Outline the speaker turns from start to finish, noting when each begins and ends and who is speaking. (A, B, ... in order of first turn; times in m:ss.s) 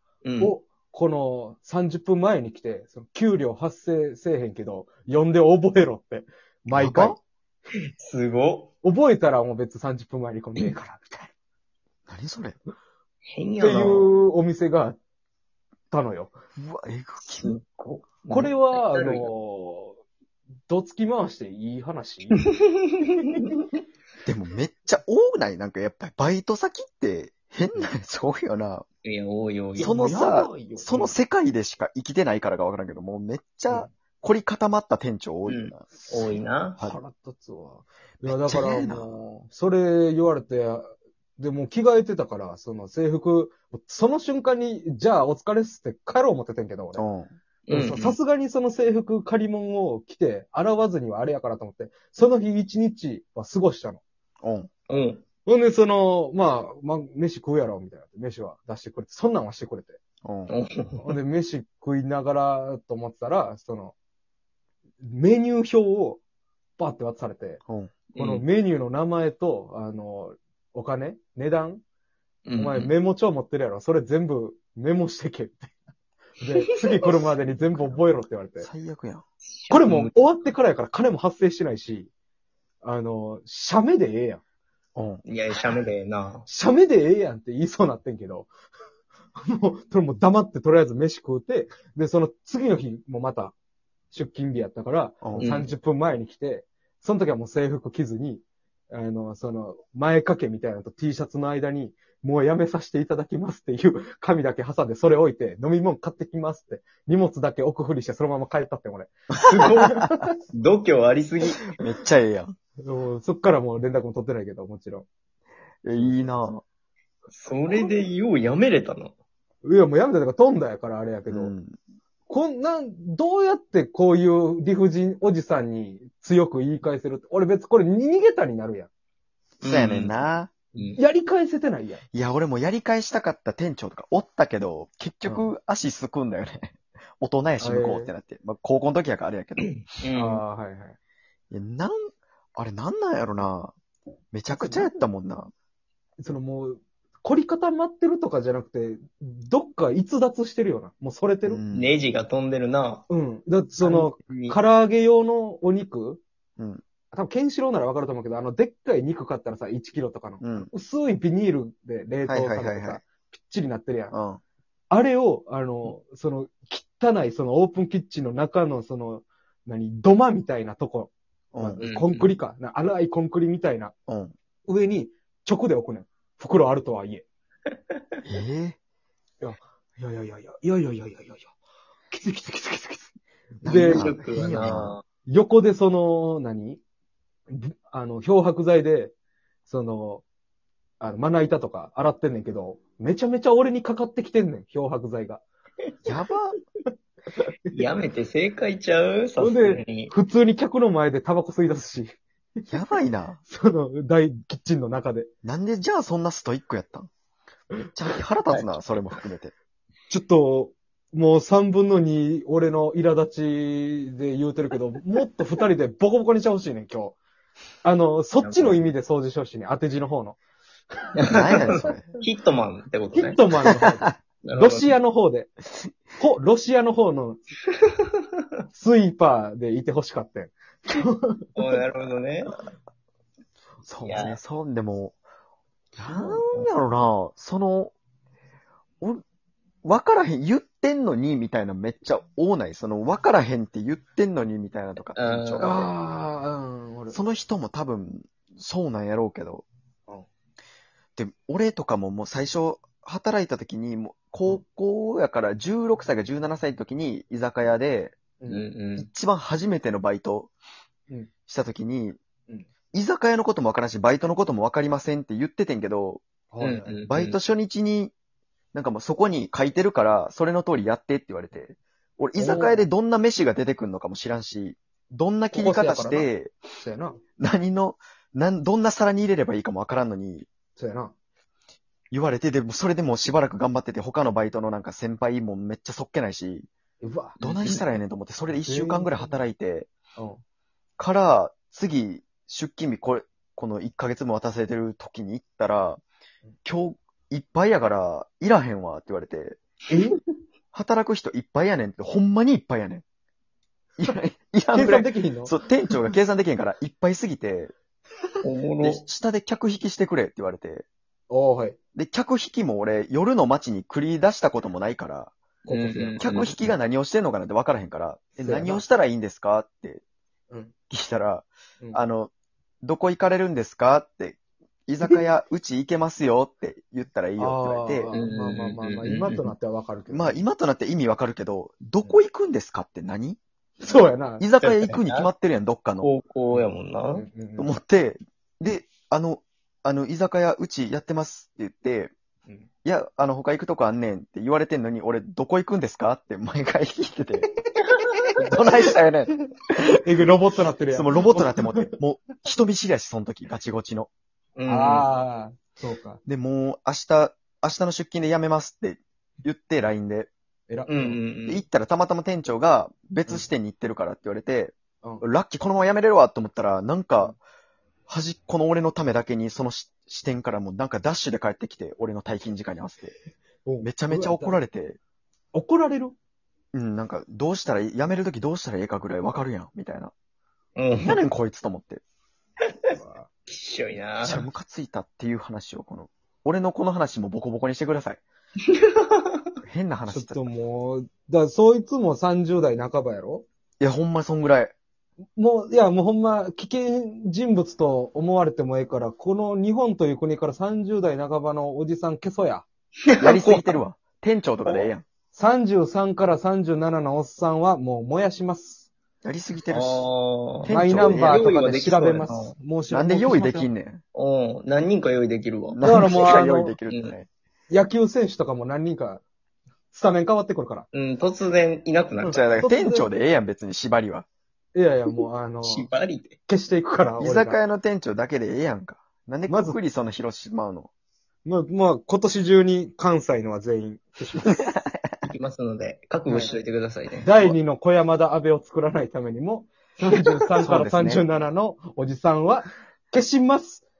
0:00.2-0:00.6 A
0:00.4-0:07.2 B
0:06.7-0:07.2 C
0:08.0-0:08.7 A
0:08.8-0:11.3 B
0:12.1-0:12.6 C
0:13.3-0:14.1 A
0:13.6-0:15.0 B
0:15.9-0:16.3 B
0:16.6-0:17.5 C
0:17.3-0:19.3 A
0:18.3-0:20.0 B
0:20.7-0:22.4 B
0:22.3-0:23.5 A
0:24.2-0:28.8 C
0:29.0-0:31.2 A
0:29.8-0:30.5 B
0:29.8-0:36.1 C
0:35.4-0:36.8 A
0:36.8-0:47.0 B
0:38.2-0:39.1 C
0:47.0-0:47.3 C
0:47.7-0:48.2 A
0:47.7-0:54.0 B
0:54.4-0:54.7 C
0:54.9-0:55.2 A
0:55.4-1:00.0 B
1:00.2-1:00.5 C
1:00.5-1:01.2 A
1:01.0-1:03.9 B
1:05.0-1:06.2 B
1:06.8-1:07.6 B
1:07.7-1:08.0 C
1:08.1-1:08.4 A
1:08.2-1:11.8 B
1:12.4-1:12.9 A
1:12.6-1:15.7 B
1:16.4-1:18.7 B
1:17.6-1:18.0 C
1:18.6-1:19.2 C
1:19.6-1:20.1 A
1:19.7-1:22.1 B
1:22.8-1:24.4 B
1:25.0-1:25.2 C
1:25.2-1:26.4 A
1:26.5-1:28.5 B
1:29.4-1:33.5 B
1:34.1-1:49.1 B
1:35.2-1:35.6 C
1:35.4-1:35.7 A
1:49.4-1:50.0 A
1:49.6-1:50.3 B
1:50.5-1:51.6 A
1:51.8-1:52.5 C
1:52.8-1:55.1 B
1:55.8-1:56.6 C
1:55.9-1:56.5 B
1:57.3-1:59.1 A
1:57.7-1:58.0 B
1:59.6-2:01.5 B
2:01.3-2:01.8 C
2:02.3-2:08.9 B
2:09.6-2:10.1 A
2:09.6-2:10.5 C
2:10.8-2:12.0 B
2:12.1-2:19.7 C
2:17.6-2:18.1 B
2:19.6-2:20.4 A
2:20.1-2:21.0 B
2:21.5-2:23.7 C
2:24.3-2:25.5 C
2:24.5-2:25.0 B
2:26.2-2:31.6 B
2:31.4-2:31.9 C
2:31.7-2:33.0 A
2:33.1-2:36.2 B
2:33.8-2:34.6 A
2:37.1-2:44.1 B
2:40.4-2:40.7 C
2:42.3-2:43.0 C
2:44.1-2:44.4 C
2:44.9-2:53.9 B
2:51.5-2:51.8 C
2:51.8-2:52.3 A
2:54.1-2:54.3 C
2:54.6-2:57.2 B
2:58.2-2:58.8 C
2:59.4-3:01.5 B
3:02.1-3:06.8 B
3:03.6-3:05.0 C
3:03.6-3:05.0 A
3:07.5-3:09.1 B
3:09.7-3:10.2 B
3:11.0-3:15.4 B
3:16.0-3:16.6 C
3:17.7-3:20.1 A
3:19.4-3:22.7 B
3:22.7-3:23.4 C
3:23.5-3:25.3 B
3:25.4-3:27.1 C
3:27.9-3:29.5 C
3:30.1-3:37.2 B
3:37.8-3:40.4 B
3:38.4-3:38.9 A
3:41.2-3:43.4 A
3:41.3-3:42.1 C
3:43.1-3:45.5 B
3:44.4-3:44.9 A
3:46.1-3:47.4 B
3:48.7-3:51.6 B
3:51.6-3:52.6 A
3:53.8-3:55.2 C
3:54.0-3:54.4 A
3:56.0-3:57.9 C
3:56.0-3:56.7 A
3:59.8-4:05.9 C
4:05.1-4:05.7 A
4:05.6-4:07.2 B
4:07.1-4:09.6 C
4:11.2-4:18.2 C
4:18.5-4:19.1 A
4:19.0-4:20.5 C
4:21.5-4:22.2 C
4:22.9-4:26.2 C
4:26.5-4:27.0 B
4:26.6-4:27.4 A
4:27.1-4:28.1 C
4:28.7-4:36.5 C
4:32.4-4:32.8 B
4:35.5-4:37.2 B
4:37.4-4:40.5 C
4:40.8-4:41.1 B
4:42.1-4:46.7 C
4:47.0-4:47.8 B
4:47.4-4:49.9 C
4:47.4-4:47.8 A
4:48.6-4:49.4 B
4:51.0-4:56.0 C
4:56.6-4:59.6 C
4:59.9-5:00.2 B
5:00.7-5:03.0 C
5:04.0-5:07.7 C
5:04.7-5:05.6 B
5:08.4-5:09.0 A
5:08.8-5:10.8 C
5:11.3-5:11.8 B
5:11.9-5:15.3 C
5:15.6-5:16.3 B
5:15.7-5:16.7 A
5:16.2-5:20.0 C
5:18.4-5:18.8 B
5:20.9-5:22.3 C
5:22.8-5:28.1 C
5:27.4-5:30.4 B
5:28.1-5:29.5 A
5:30.1-5:33.4 C
5:33.8-5:34.4 B
5:34.4-5:36.1 C
5:34.6-5:35.3 A
5:36.0-5:37.2 A
5:37.1-5:37.7 B
5:37.6-5:42.1 C
5:42.8-5:47.4 C
5:48.4-5:49.9 C
5:50.0-5:51.8 B
5:50.9-5:54.1 C
5:54.6-5:55.1 A
5:54.6-5:56.2 B
5:56.3-6:00.3 C
6:00.7-6:01.2 B
6:00.9-6:01.6 A
6:01.5-6:07.3 C
6:08.1-6:13.1 C
6:13.6-6:14.6 B
6:13.8-6:15.0 C
6:15.5-6:16.1 B
6:16.7-6:20.1 C
6:20.8-6:21.2 A
6:21.0-6:22.0 C
6:22.9-6:23.3 B
6:23.5-6:24.4 A
6:24.2-6:28.2 C
6:29.6-6:30.5 C
6:30.1-6:33.4 B
6:33.8-6:34.7 C
6:35.4-6:42.6 B
6:43.1-6:43.8 A
6:43.2-6:45.0 C
6:45.3-6:48.9 B
6:49.2-6:50.0 C
6:49.7-6:52.6 A
6:50.6-6:51.4 C
6:50.7-6:53.7 B
6:52.9-6:54.0 C
6:54.1-6:56.3 A
6:55.7-6:57.3 C
6:55.8-6:56.8 B
6:56.9-6:57.1 A
6:57.7-6:59.2 B
6:59.9-7:00.9 B
7:00.9-7:02.5 A
7:02.2-7:03.1 B
7:02.2-7:04.2 C
7:04.7-7:05.9 B
7:05.6-7:06.4 A
7:06.5-7:07.6 B
7:07.2-7:10.9 C
7:09.5-7:09.8 B
7:11.4-7:14.7 B
7:14.6-7:15.3 C
7:15.2-7:17.5 A
7:16.3-7:16.6 B
7:17.2-7:23.8 B
7:20.6-7:21.2 C